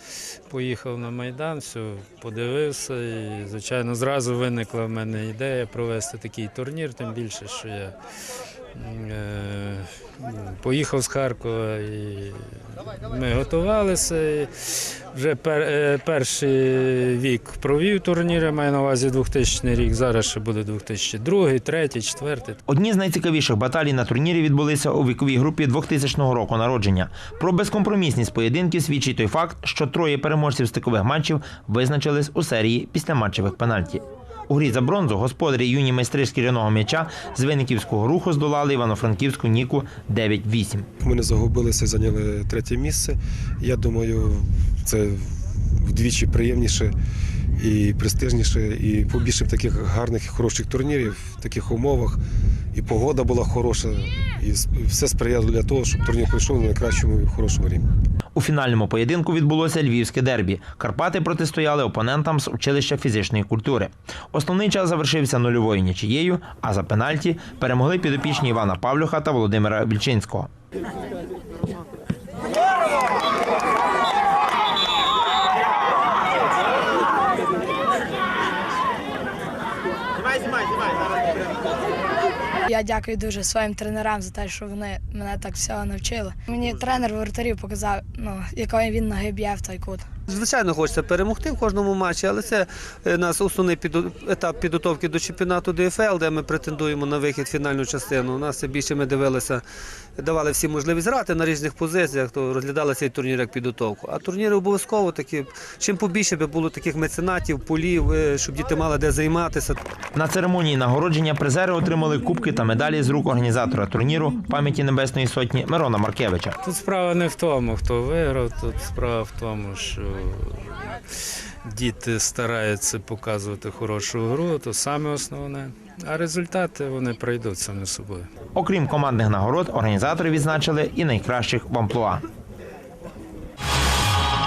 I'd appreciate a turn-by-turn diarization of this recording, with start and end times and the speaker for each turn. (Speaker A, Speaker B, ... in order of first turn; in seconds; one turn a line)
Speaker A: 0.5-7.9
Speaker A: 8.7-22.6
Speaker B: 22.6-40.9
Speaker C: 41.0-46.9
Speaker C: 47.6-52.2
Speaker C: 52.7-57.9
Speaker B: 58.3-70.5
Speaker D: 82.6-90.1
Speaker E: 90.3-99.6
Speaker E: 100.2-109.8
Speaker B: 110.1-116.5
Speaker A: 116.6-121.0
Speaker A: 121.6-128.3
Speaker B: 128.5-132.2